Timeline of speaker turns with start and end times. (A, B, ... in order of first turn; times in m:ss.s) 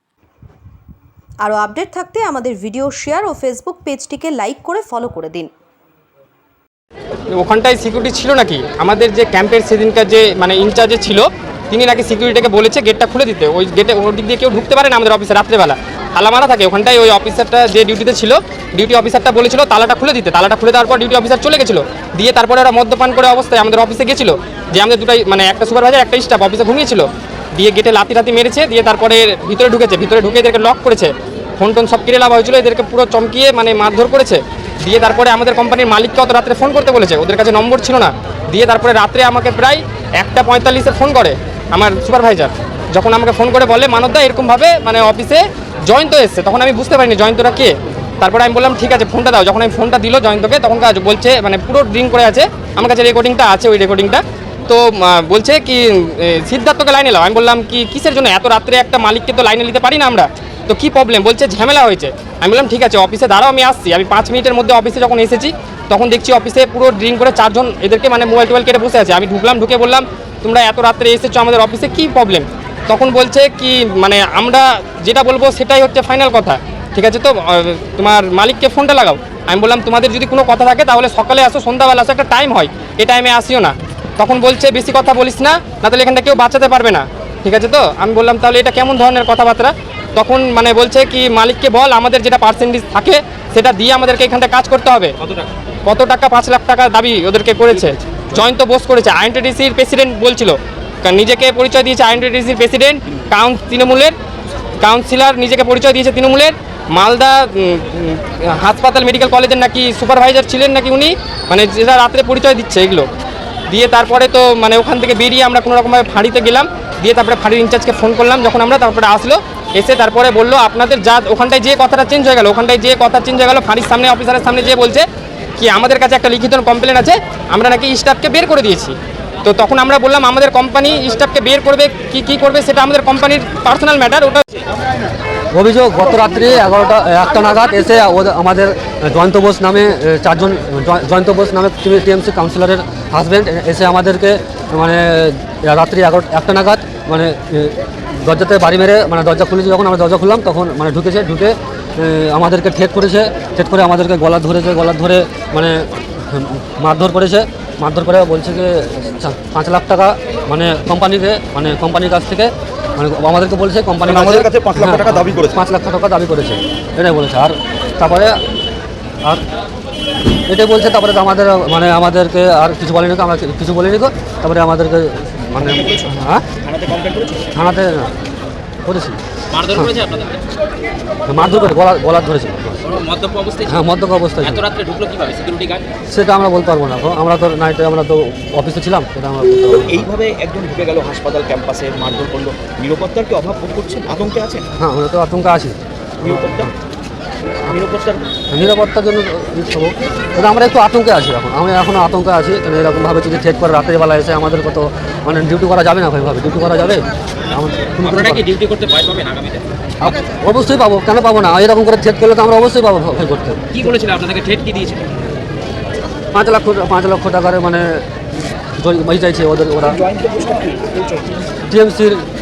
0:01.4-0:05.5 A
0:07.3-1:35.2 B
1:35.2-1:35.5 C
1:35.8-1:44.1 B
1:44.8-1:53.1 B
1:53.7-2:05.0 B
2:05.6-2:14.4 B
2:15.5-2:48.4 D
2:44.0-2:45.6 E
2:50.4-2:56.4 D
2:55.6-2:56.1 E
2:56.6-2:57.4 E
2:57.5-2:58.1 D
2:58.8-2:59.2 D
2:59.5-3:00.4 C
3:01.3-3:02.8 D
3:02.8-3:03.8 C
3:03.6-3:04.6 D
3:04.4-3:05.8 C
3:06.1-3:10.1 D
3:09.7-3:14.6 E
3:14.8-3:16.7 D
3:16.2-3:16.7 E
3:17.6-3:18.2 E
3:18.5-3:28.5 D
3:28.0-3:29.7 C
3:30.0-3:33.8 D
3:33.7-3:35.1 C
3:36.3-3:38.1 D
3:38.8-3:40.0 D
3:39.8-3:41.4 E
3:41.7-3:42.3 D